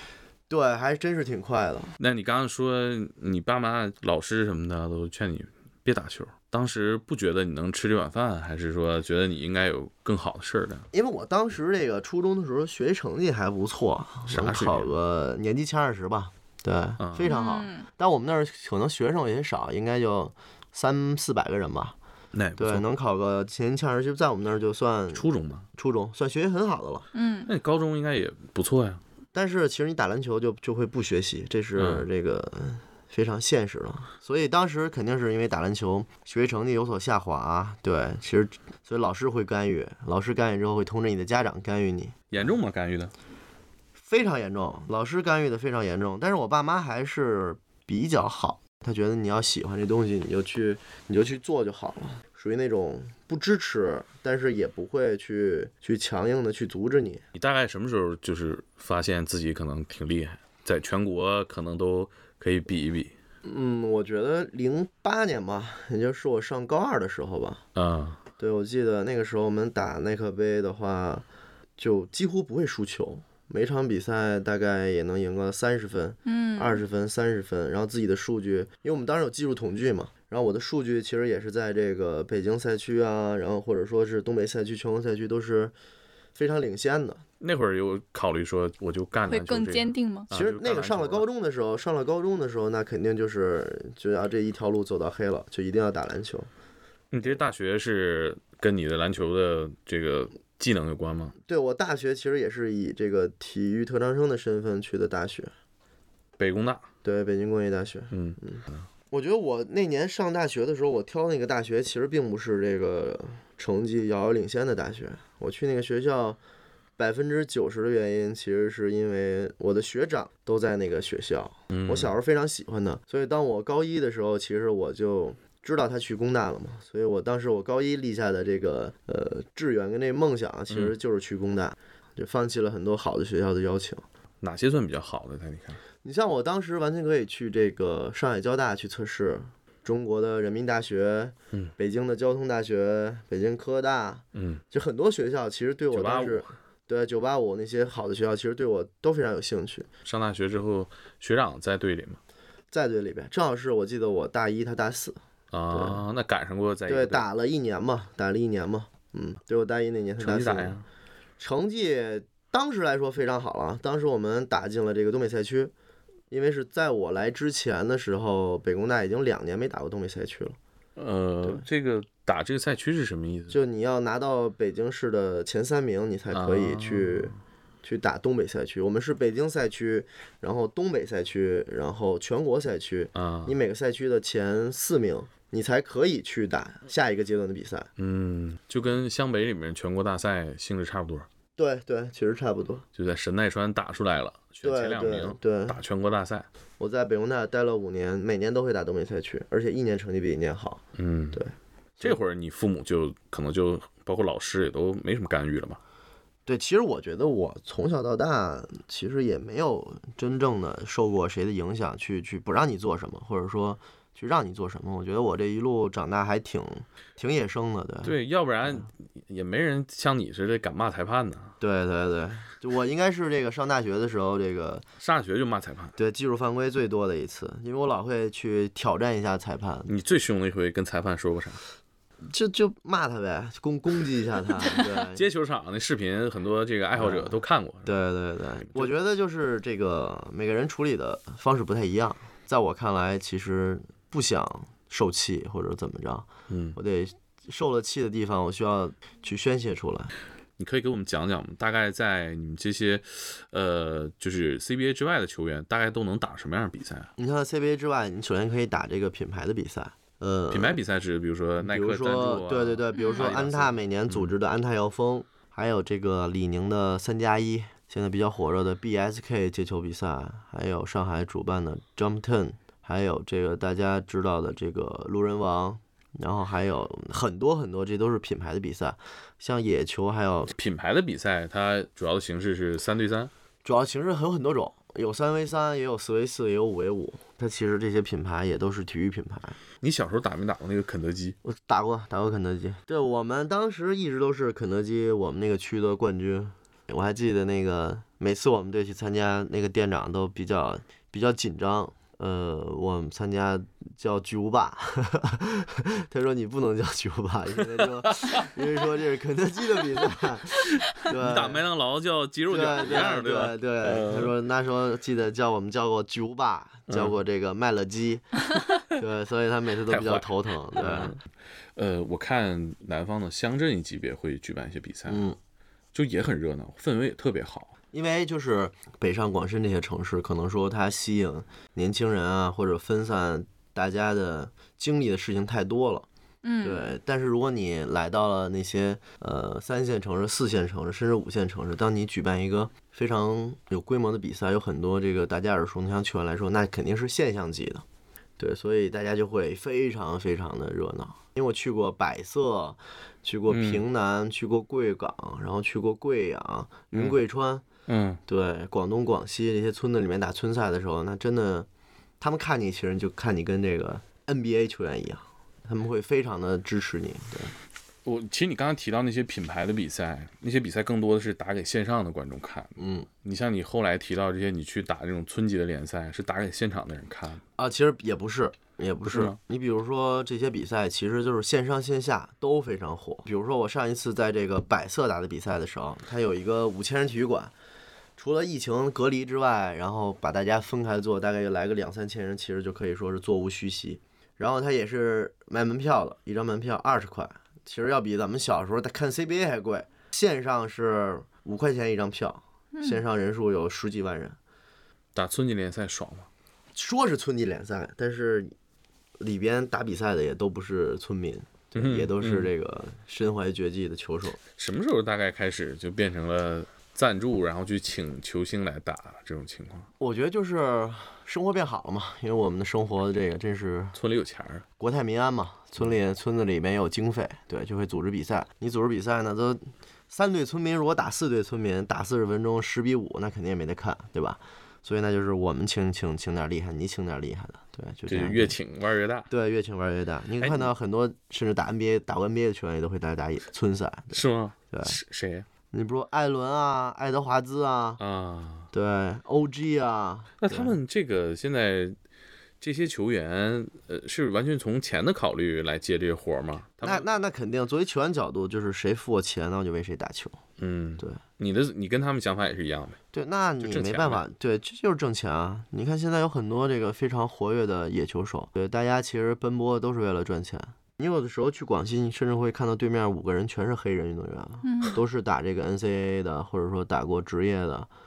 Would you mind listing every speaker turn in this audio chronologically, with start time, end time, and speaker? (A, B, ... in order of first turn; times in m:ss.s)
0:00.5-0:01.9 A
0:02.0-0:10.9 B
0:10.9-0:21.9 A
0:14.3-0:14.9 B
0:17.0-0:17.3 B
0:17.2-0:17.9 C
0:22.3-0:22.9 B
0:22.6-0:25.2 A
0:25.1-0:25.7 B
0:25.8-0:27.1 A
0:27.1-0:27.5 C
0:27.4-0:29.0 B
0:29.3-0:42.4 A
0:31.8-0:32.0 B
0:42.3-0:43.1 B
0:44.0-0:57.2 A
0:57.3-1:03.1 B
1:03.4-1:07.6 A
1:07.7-1:08.2 B
1:08.4-1:11.2 A
1:11.8-1:25.7 A
1:16.2-1:16.8 C
1:26.3-1:27.2 A
1:27.4-1:31.2 B
1:29.3-1:30.3 C
1:30.3-1:36.5 A
1:37.1-1:41.3 B
1:41.5-1:45.5 A
1:46.4-1:46.8 B
1:47.0-1:56.4 A
1:48.1-1:48.8 B
1:57.0-2:14.0 A
2:01.7-2:02.1 B
2:14.4-2:15.8 B
2:16.0-2:29.9 A
2:24.3-2:24.6 B
2:25.9-2:26.5 B
2:30.0-2:32.2 B
2:32.7-2:35.2 A
2:35.5-2:37.2 B
2:35.7-2:36.0 A
2:36.9-2:40.8 A
2:40.2-2:40.8 B
2:41.4-2:45.7 A
2:46.3-2:50.6 A
2:51.0-2:53.6 B
2:53.5-3:07.9 A
2:56.3-2:57.4 B
3:03.1-3:03.5 B
3:08.0-3:11.3 B
3:11.6-3:12.8 A
3:13.0-3:16.5 B
3:14.6-3:15.8 A
3:16.8-3:20.8 A
3:21.0-3:21.4 B
3:21.3-3:22.2 A
3:22.0-3:25.8 B
3:26.4-3:38.2 A
3:38.0-3:41.5 B
3:41.6-3:44.8 A
3:45.0-3:45.9 B
3:46.0-3:49.9 A
3:49.9-3:51.6 B
3:52.3-3:55.2 A
3:54.6-3:57.9 B
3:56.9-4:10.1 A
3:58.6-3:58.9 B
4:06.5-4:06.8 B
4:10.6-4:17.1 B
4:17.2-4:20.8 A
4:20.5-4:24.3 B
4:21.6-4:40.5 A
4:22.9-4:23.2 C
4:40.5-4:43.3 B
4:43.6-4:49.6 A
4:49.8-4:51.4 B
4:51.4-5:11.6 A
5:07.8-5:08.6 B
5:10.7-5:14.3 B
5:12.5-5:21.2 A
5:16.9-5:17.1 B
5:19.9-5:21.2 B
5:21.8-5:25.2 B
5:25.1-5:25.4 A
5:25.9-5:27.7 B
5:27.9-5:36.0 A
5:36.4-5:36.8 C
5:36.6-5:47.8 A
5:48.4-5:57.6 A
5:53.5-5:53.8 B
5:56.9-5:57.2 B
5:57.9-5:58.2 B
5:58.3-6:01.7 A
6:02.2-6:07.5 A
6:08.0-6:17.4 B
6:12.8-6:13.1 A
6:17.6-6:27.5 A
6:19.1-6:19.4 B
6:28.2-6:44.4 A
6:42.7-6:43.0 C
6:45.1-6:46.3 B
6:46.7-6:48.5 A
6:49.2-6:54.4 A
6:51.7-6:52.5 B
6:54.6-6:59.9 B
7:00.0-7:04.0 A
7:03.9-7:04.6 B
7:04.8-7:18.6 A
7:18.1-7:19.3 B
7:19.3-7:25.0 A
7:20.4-7:20.7 B
7:24.1-7:25.5 B
7:25.7-7:28.0 A
7:28.0-7:28.7 B
7:28.7-7:30.7 A
7:30.4-7:32.0 B
7:32.6-7:37.1 B
7:36.8-7:40.4 A
7:40.6-7:43.0 B
7:43.1-7:57.9 A
7:43.6-7:44.2 B
7:54.6-7:55.0 C